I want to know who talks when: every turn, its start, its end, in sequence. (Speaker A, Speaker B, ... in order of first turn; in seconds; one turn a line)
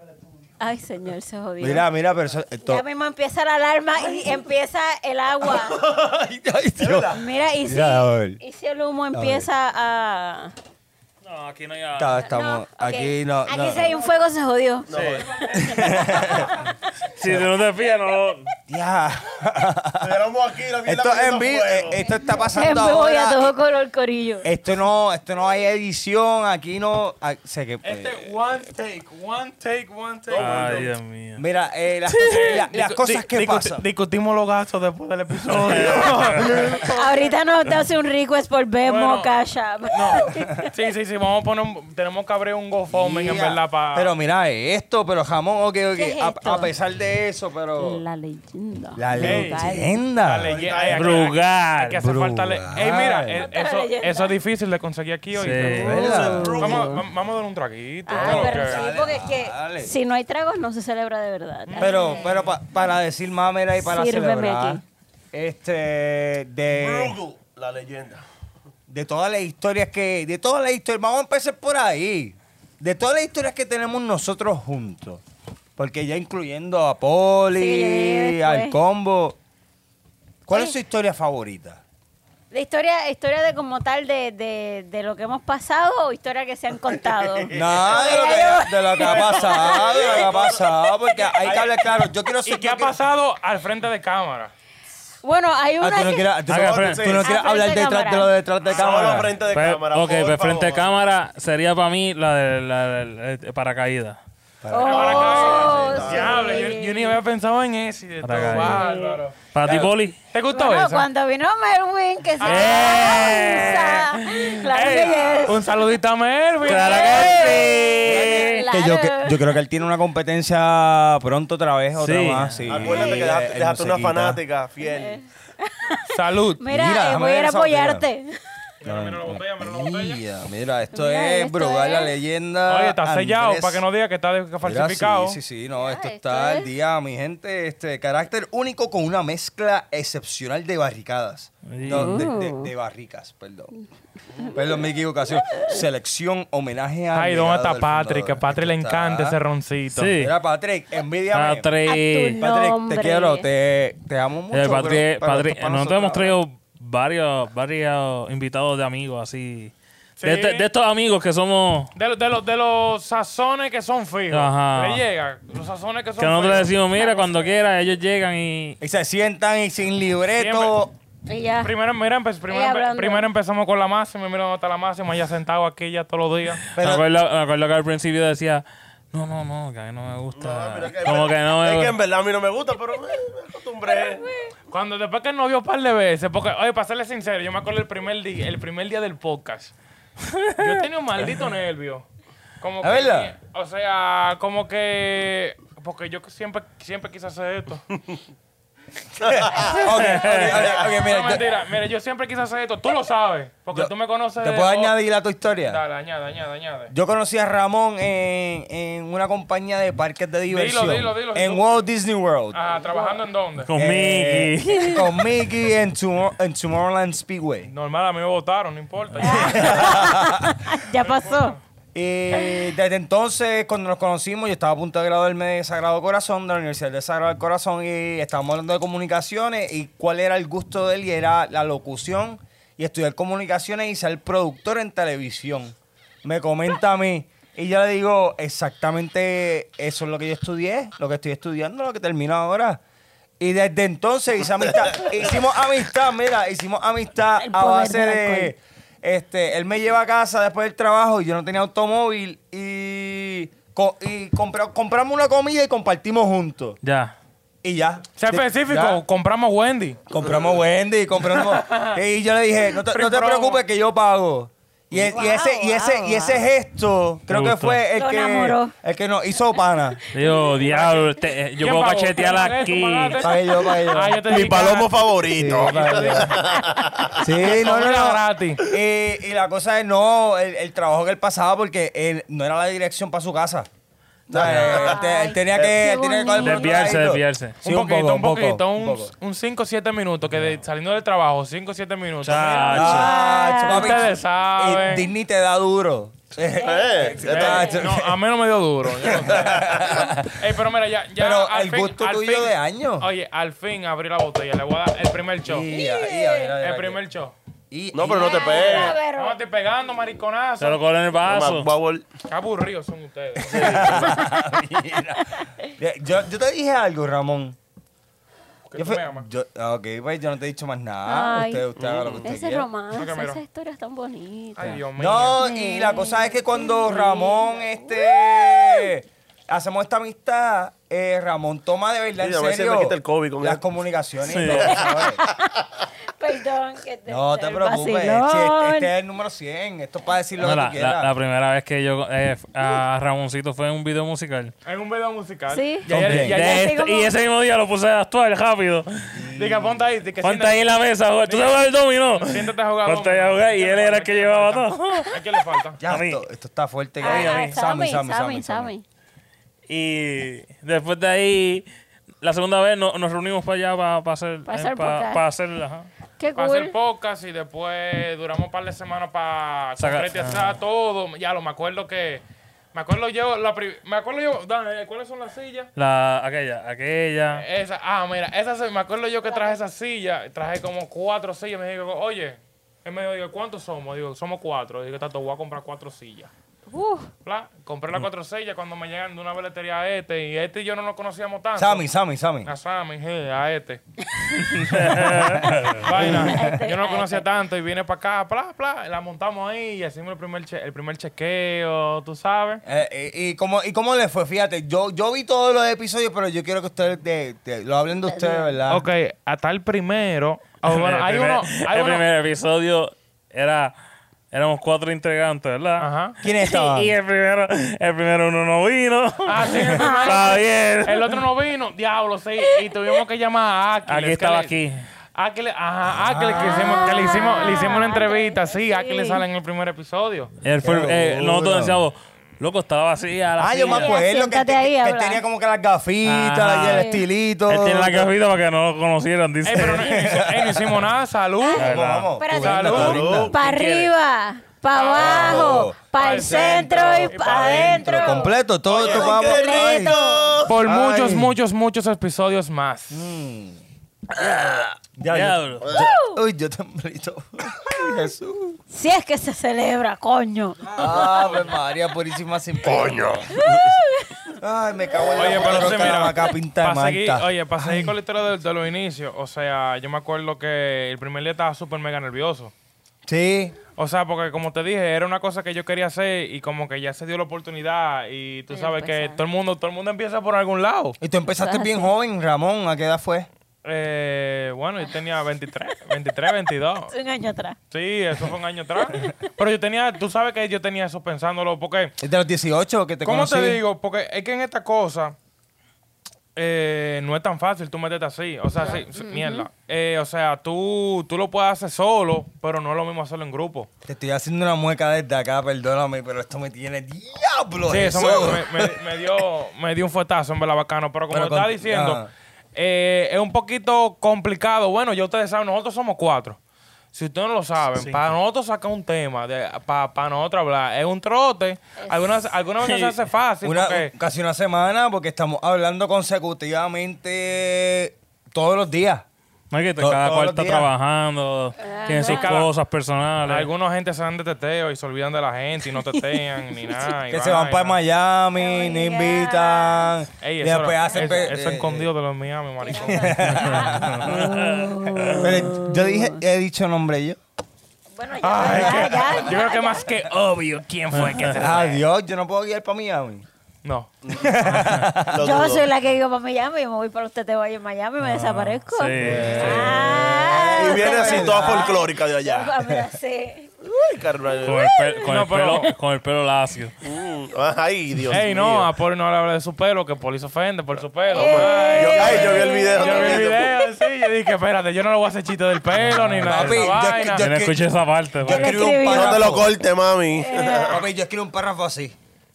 Speaker A: 0.6-1.9
Speaker B: 1.6-2.8
Speaker A: 2.7-5.8
Speaker B: 5.9-8.4
Speaker C: 6.8-7.2
Speaker A: 7.1-10.5
Speaker B: 9.1-9.5
Speaker D: 11.2-12.2
Speaker B: 12.0-14.0
Speaker A: 12.3-14.9
Speaker C: 14.9-15.8
Speaker D: 14.9-15.3
Speaker A: 15.4-16.5
Speaker B: 15.5-16.6
Speaker D: 17.2-18.5
Speaker B: 18.7-20.2
Speaker C: 20.0-22.1
Speaker B: 20.9-23.6
Speaker A: 22.3-24.5
Speaker B: 24.4-28.3
Speaker E: 27.8-30.9
Speaker C: 30.3-31.0
Speaker D: 30.4-31.4
Speaker B: 31.4-33.8
Speaker D: 32.2-32.6
Speaker E: 32.2-37.4
Speaker D: 35.5-36.7
Speaker A: 36.8-40.7
Speaker E: 38.8-39.4
Speaker E: 39.9-44.1
Speaker B: 42.9-48.0
Speaker A: 45.9-46.7
Speaker A: 47.8-50.0
Speaker B: 49.0-50.7
Speaker D: 49.1-49.6
Speaker E: 49.2-49.5
Speaker E: 50.2-58.8
Speaker C: 50.4-51.3
Speaker D: 50.8-52.0
Speaker B: 52.0-53.5
Speaker A: 52.8-54.3
Speaker D: 55.3-56.2
Speaker A: 55.6-57.0
Speaker B: 55.8-56.7
Speaker C: 56.2-57.0
Speaker A: 58.1-62.3
Speaker B: 58.1-59.9
Speaker E: 61.7-62.5
Speaker B: 61.8-64.8
Speaker A: 63.8-64.8
Speaker B: 65.3-67.2
Speaker C: 66.7-68.2
Speaker B: 68.9-75.2
Speaker B: 75.8-79.4
Speaker A: 77.6-78.8
Speaker B: 80.5-81.8
Speaker A: 82.5-90.2
Speaker C: 87.5-87.8
Speaker B: 87.5-92.9
Speaker C: 89.0-90.7
Speaker C: 91.4-91.7
Speaker E: 92.5-94.5
Speaker A: 95.2-96.3
Speaker B: 95.8-99.3
Speaker D: 96.5-97.2
Speaker C: 96.5-97.3
Speaker A: 97.2-98.3
Speaker C: 98.7-101.0
Speaker D: 99.0-104.2
Speaker B: 104.6-106.1
Speaker A: 104.7-107.2
Speaker C: 104.9-106.7
Speaker E: 104.9-111.1
Speaker D: 108.2-109.0
Speaker A: 108.6-109.2
Speaker D: 109.5-110.2
Speaker A: 110.5-115.7
Speaker E: 112.4-113.5
Speaker D: 112.4-114.6
Speaker E: 114.6-117.7
Speaker D: 116.6-118.7
Speaker A: 116.7-119.4
Speaker B: 118.0-124.4
Speaker D: 122.0-122.7
Speaker C: 122.7-125.2
Speaker A: 122.8-123.2
Speaker A: 124.8-128.4
Speaker E: 126.1-126.6
Speaker B: 126.7-128.1
Speaker E: 128.8-130.2
Speaker B: 128.8-133.8
Speaker A: 130.9-132.1
Speaker E: 132.7-135.4
Speaker B: 134.6-143.7
Speaker A: 135.8-136.7
Speaker D: 141.7-142.3
Speaker A: 141.9-142.7
Speaker B: 144.4-149.4
Speaker E: 147.1-150.2
Speaker D: 149.9-150.3
Speaker B: 150.2-151.7
Speaker D: 151.3-152.4
Speaker A: 151.9-153.5
Speaker B: 152.4-156.4
Speaker D: 154.5-161.9
Speaker E: 160.2-160.7
Speaker E: 161.9-166.8
Speaker D: 164.3-165.0
Speaker D: 166.2-168.8
Speaker A: 166.9-167.6
Speaker B: 168.8-170.9
Speaker E: 170.4-170.8
Speaker A: 171.3-171.7
Speaker E: 171.6-176.6
Speaker A: 172.5-173.3
Speaker B: 176.8-177.0
Speaker D: 176.8-182.0
Speaker C: 180.4-184.3
Speaker A: 183.8-184.5
Speaker E: 184.7-189.7
Speaker D: 190.3-190.7
Speaker E: 190.6-192.1
Speaker E: 192.6-197.8
Speaker B: 192.8-193.3
Speaker B: 199.2-201.4
Speaker C: 199.2-199.8
Speaker D: 199.8-200.6
Speaker E: 200.2-205.0
Speaker B: 203.7-205.8
Speaker E: 205.6-206.9
Speaker B: 206.9-212.6
Speaker E: 210.5-211.8
Speaker E: 212.5-213.7
Speaker D: 213.6-215.1
Speaker B: 213.8-217.7
Speaker E: 217.7-220.0
Speaker B: 219.2-220.6
Speaker A: 219.2-221.6
Speaker E: 221.0-221.6
Speaker B: 221.9-242.8
Speaker A: 222.3-222.7
Speaker B: 243.4-256.8
Speaker A: 247.4-248.5
Speaker D: 256.8-257.1
Speaker B: 257.6-259.0
Speaker E: 258.2-260.0
Speaker B: 260.1-270.0
Speaker E: 261.3-262.0
Speaker E: 262.7-263.6
Speaker A: 265.0-266.4
Speaker D: 267.3-267.8
Speaker A: 268.0-268.7
Speaker A: 270.0-270.7
Speaker D: 270.1-273.2
Speaker E: 270.6-276.6
Speaker B: 273.2-274.2
Speaker C: 274.3-277.3
Speaker B: 275.4-276.3
Speaker B: 277.1-283.7
Speaker E: 277.4-278.6
Speaker C: 284.3-285.0
Speaker B: 284.3-289.1
Speaker D: 284.4-284.8
Speaker A: 284.6-287.0
Speaker D: 286.4-287.6
Speaker E: 287.6-295.1
Speaker D: 292.2-293.1
Speaker A: 292.5-294.1
Speaker B: 292.7-298.2
Speaker C: 296.6-297.6
Speaker E: 297.2-299.6
Speaker A: 297.4-297.8
Speaker B: 299.0-300.4
Speaker E: 300.2-305.7
Speaker B: 301.2-303.1
Speaker B: 305.5-307.0
Speaker A: 305.7-306.5
Speaker E: 306.6-307.3
Speaker B: 307.7-308.6
Speaker C: 307.9-309.0
Speaker A: 308.1-309.4
Speaker E: 308.4-310.8
Speaker D: 310.6-311.7
Speaker C: 311.2-312.0
Speaker E: 312.2-314.1
Speaker B: 313.4-317.6
Speaker C: 313.5-314.3
Speaker E: 318.7-319.3
Speaker B: 318.8-322.7
Speaker A: 321.1-321.7
Speaker C: 321.8-322.3
Speaker A: 322.2-324.8
Speaker E: 322.9-323.4
Speaker E: 324.6-325.4
Speaker B: 325.0-335.2
Speaker A: 325.4-328.9
Speaker C: 332.2-333.6
Speaker D: 334.2-334.9
Speaker C: 334.4-335.3
Speaker A: 334.8-335.5
Speaker A: 336.0-338.9
Speaker B: 337.1-341.1
Speaker D: 340.4-344.5
Speaker E: 344.6-346.6
Speaker A: 345.5-347.2
Speaker B: 345.9-346.4
Speaker D: 345.9-349.2
Speaker B: 349.1-349.8
Speaker E: 349.4-355.8
Speaker D: 350.2-355.2
Speaker B: 355.8-358.7
Speaker D: 355.9-356.2
Speaker D: 357.0-357.6
Speaker A: 357.0-358.8
Speaker D: 359.7-361.7
Speaker D: 362.2-365.9
Speaker A: 364.5-365.2
Speaker A: 366.2-366.7
Speaker E: 366.4-375.7
Speaker D: 369.8-370.6
Speaker D: 375.8-377.4
Speaker E: 377.3-386.3
Speaker A: 386.7-387.1
Speaker E: 387.2-391.9
Speaker B: 391.6-392.5
Speaker E: 392.4-393.8
Speaker B: 394.4-396.6
Speaker D: 394.6-395.9
Speaker A: 395.4-397.3
Speaker E: 395.8-402.6
Speaker B: 402.6-408.9
Speaker A: 408.1-408.6
Speaker E: 408.7-412.1
Speaker D: 410.7-413.7
Speaker D: 414.3-415.9
Speaker E: 415.8-416.2
Speaker B: 416.2-416.9
Speaker D: 416.5-421.2
Speaker E: 419.3-424.6
Speaker A: 419.7-420.4
Speaker D: 423.9-424.9
Speaker E: 425.2-430.3
Speaker B: 426.0-427.0
Speaker A: 426.3-429.2
Speaker D: 430.4-434.0
Speaker B: 430.6-431.8
Speaker B: 433.4-438.1
Speaker A: 433.7-435.2
Speaker D: 436.0-436.9
Speaker A: 436.6-437.0
Speaker D: 437.5-439.9
Speaker E: 439.4-441.7
Speaker B: 439.5-440.8
Speaker B: 441.6-443.3
Speaker D: 441.6-442.1
Speaker A: 442.2-450.4
Speaker E: 442.4-443.9
Speaker C: 442.6-443.4
Speaker E: 444.7-448.3
Speaker B: 445.0-445.8
Speaker B: 447.3-450.1
Speaker C: 448.7-450.6
Speaker E: 450.4-453.1
Speaker B: 450.6-451.3
Speaker B: 452.9-453.6
Speaker B: 454.2-458.6
Speaker D: 455.1-455.7
Speaker A: 455.7-456.2
Speaker A: 458.7-460.6
Speaker B: 460.7-463.4
Speaker C: 462.6-463.8
Speaker A: 463.4-464.2
Speaker B: 464.4-467.9
Speaker E: 465.1-472.5
Speaker B: 473.1-473.6
Speaker E: 473.8-481.0
Speaker A: 478.5-479.2
Speaker B: 481.0-483.3
Speaker A: 481.4-481.9
Speaker E: 483.6-486.9
Speaker A: 486.9-487.6
Speaker E: 487.7-491.9
Speaker A: 488.9-489.3
Speaker B: 492.0-493.6
Speaker E: 493.0-495.2
Speaker E: 496.4-503.7
Speaker A: 498.6-499.5
Speaker B: 503.9-508.8
Speaker E: 507.7-512.0
Speaker B: 511.1-512.1
Speaker E: 512.5-516.4
Speaker E: 516.9-523.9
Speaker D: 517.8-518.1
Speaker A: 521.8-522.2
Speaker D: 522.6-523.0
Speaker B: 523.4-529.0
Speaker D: 529.5-533.5
Speaker B: 529.8-530.7
Speaker A: 531.6-532.4
Speaker E: 531.9-532.5
Speaker E: 533.2-537.8
Speaker B: 537.1-541.9
Speaker A: 538.4-539.9
Speaker E: 540.2-543.8
Speaker A: 540.8-541.3
Speaker A: 542.6-546.2
Speaker B: 542.8-544.3
Speaker D: 543.4-545.3
Speaker B: 545.2-547.2
Speaker A: 547.9-549.9
Speaker E: 548.2-551.9
Speaker B: 548.4-549.1
Speaker D: 550.9-551.4
Speaker B: 551.4-553.2
Speaker E: 553.6-553.9
Speaker B: 554.1-555.5
Speaker D: 554.5-554.9
Speaker C: 555.1-555.7
Speaker A: 555.2-563.5
Speaker D: 558.0-559.9
Speaker B: 559.0-561.8
Speaker C: 560.5-562.7
Speaker C: 563.6-564.7
Speaker D: 564.4-566.8
Speaker A: 564.5-565.7
Speaker E: 565.0-565.7
Speaker C: 566.8-568.7
Speaker E: 568.1-577.3
Speaker A: 571.1-573.4
Speaker C: 571.1-573.5
Speaker D: 575.7-578.7
Speaker B: 576.2-577.7
Speaker B: 578.2-579.5
Speaker A: 578.3-579.4
Speaker C: 578.8-580.8
Speaker A: 580.1-580.8
Speaker B: 580.6-582.0